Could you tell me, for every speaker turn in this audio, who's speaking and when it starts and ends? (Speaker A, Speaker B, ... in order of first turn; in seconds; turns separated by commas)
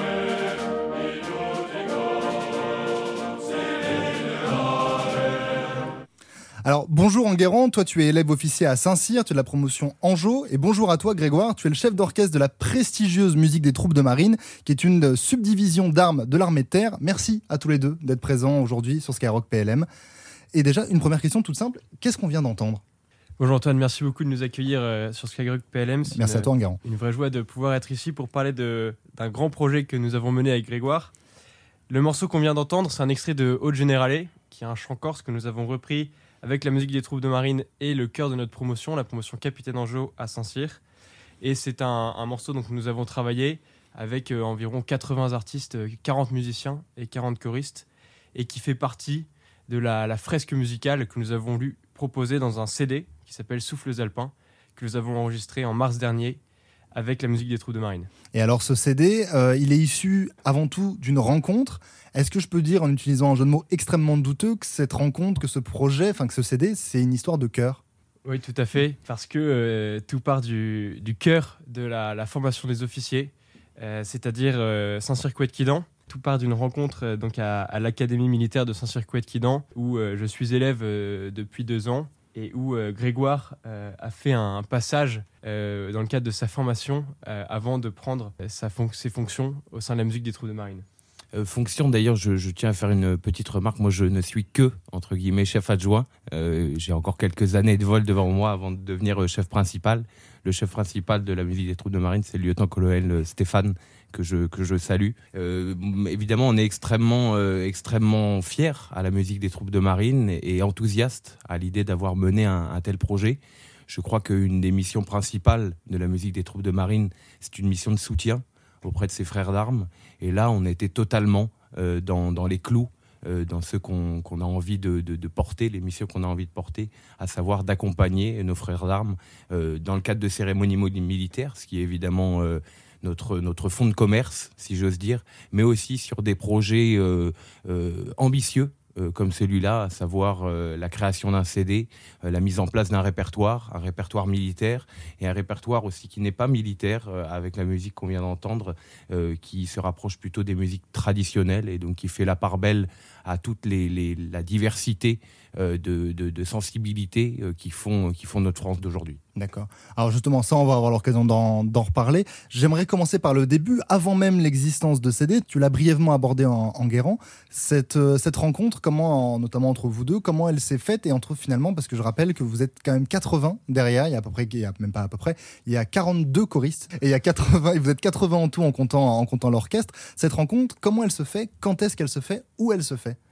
Speaker A: 6.6-19.9, Speaker A: 20.5-22.8, Speaker B: 23.4-31.1, Speaker A: 26.1-26.8, Speaker B: 31.9-40.8, Speaker B: 41.4-56.4, Speaker B: 56.9-58.1, Speaker A: 58.3-67.8, Speaker B: 68.2-90.8, Speaker C: 91.3-159.2, Speaker A: 159.3-183.2